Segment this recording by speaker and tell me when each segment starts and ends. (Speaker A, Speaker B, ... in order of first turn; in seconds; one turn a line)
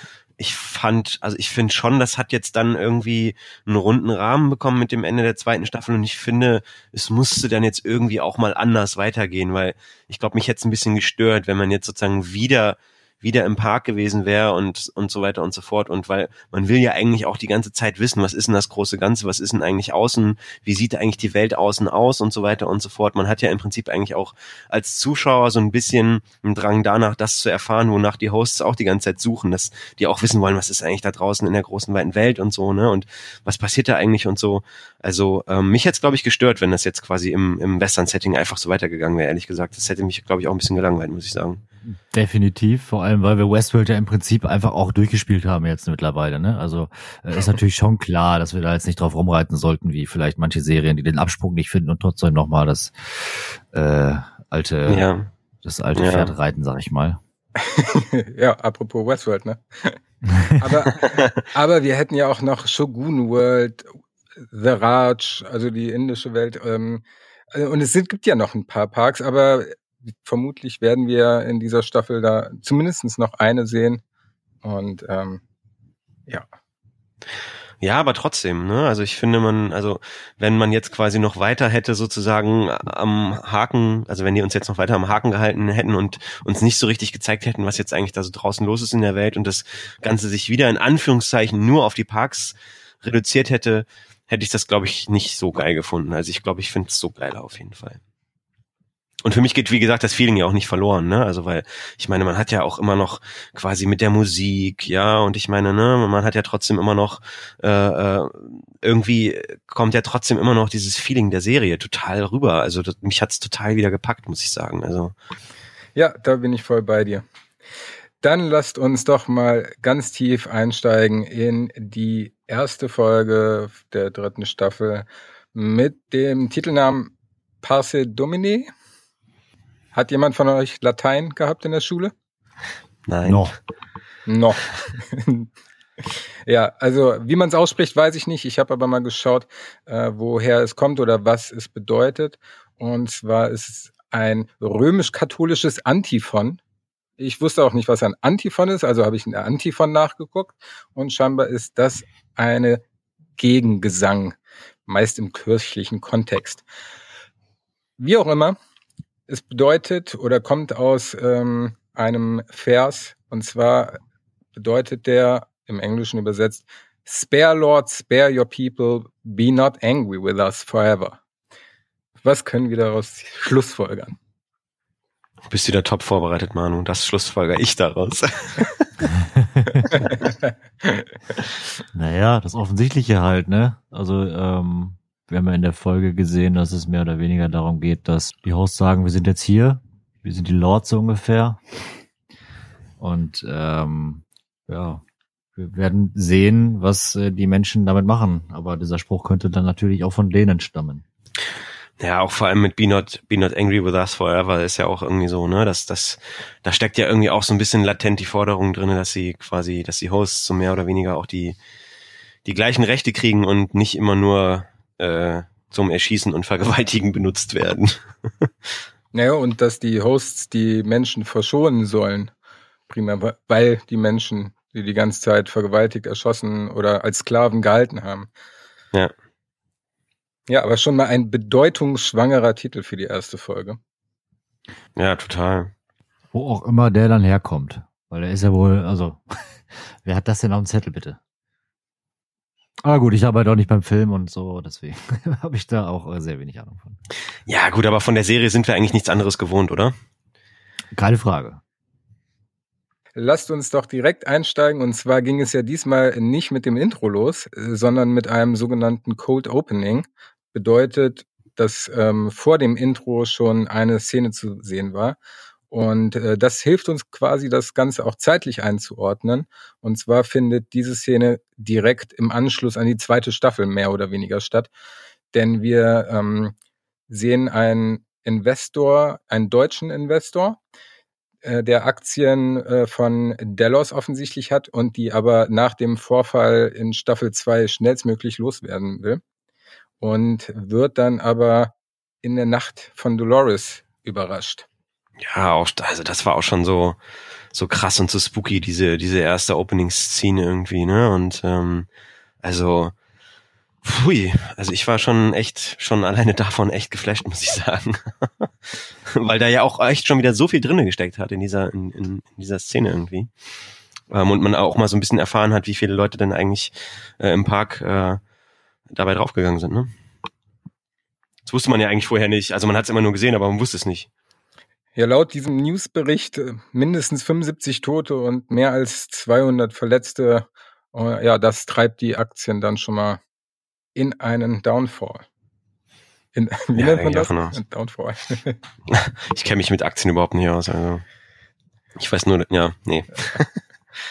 Speaker A: 0.4-41.6
Speaker B: 41.9-55.1
Speaker A: 54.9-55.3
Speaker B: 55.6-57.2
Speaker A: 56.0-56.3
Speaker C: 57.6-60.0
Speaker C: 60.6-63.9
Speaker A: 61.0-61.4
Speaker C: 64.5-74.0
Speaker C: 74.6-75.4
Speaker A: 77.8-98.0
Speaker A: 99.2-115.1
Speaker C: 116.0-117.2
Speaker C: 118.2-128.7
Speaker C: 129.9-132.1
Speaker A: 133.1-133.5
Speaker B: 133.2-133.6
Speaker C: 134.3-135.5
Speaker C: 136.1-146.6
Speaker C: 147.2-152.8
Speaker C: 153.4-156.6
Speaker C: 158.0-158.6
Speaker C: 159.3-164.0
Speaker C: 164.6-171.2
Speaker C: 172.2-174.2
Speaker A: 175.5-178.9
Speaker B: 179.0-180.1
Speaker B: 181.9-191.9
Speaker B: 193.0-195.0
Speaker B: 195.6-201.0
Speaker A: 202.0-211.6
Speaker A: 212.4-218.5
Speaker C: 219.1-222.3
Speaker C: 222.9-228.3
Speaker C: 230.5-233.8
Speaker A: 235.0-235.7
Speaker B: 236.3-241.2
Speaker B: 242.8-247.0
Speaker A: 247.5-249.9
Speaker B: 250.9-251.6
Speaker C: 253.2-265.2
Speaker C: 265.7-274.7
Speaker C: 275.3-276.6
Speaker C: 277.1-280.6
Speaker C: 281.4-289.2
Speaker C: 290.0-294.7
Speaker A: 295.2-297.0
Speaker A: 297.5-301.9
Speaker A: 302.4-302.9
Speaker A: 303.8-313.3
Speaker A: 314.1-318.2
Speaker A: 318.9-319.9
Speaker A: 321.5-324.1
Speaker C: 324.9-333.2
Speaker C: 333.9-335.3
Speaker C: 336.4-338.6
Speaker A: 336.8-337.6
Speaker A: 338.9-341.0
Speaker A: 342.0-343.6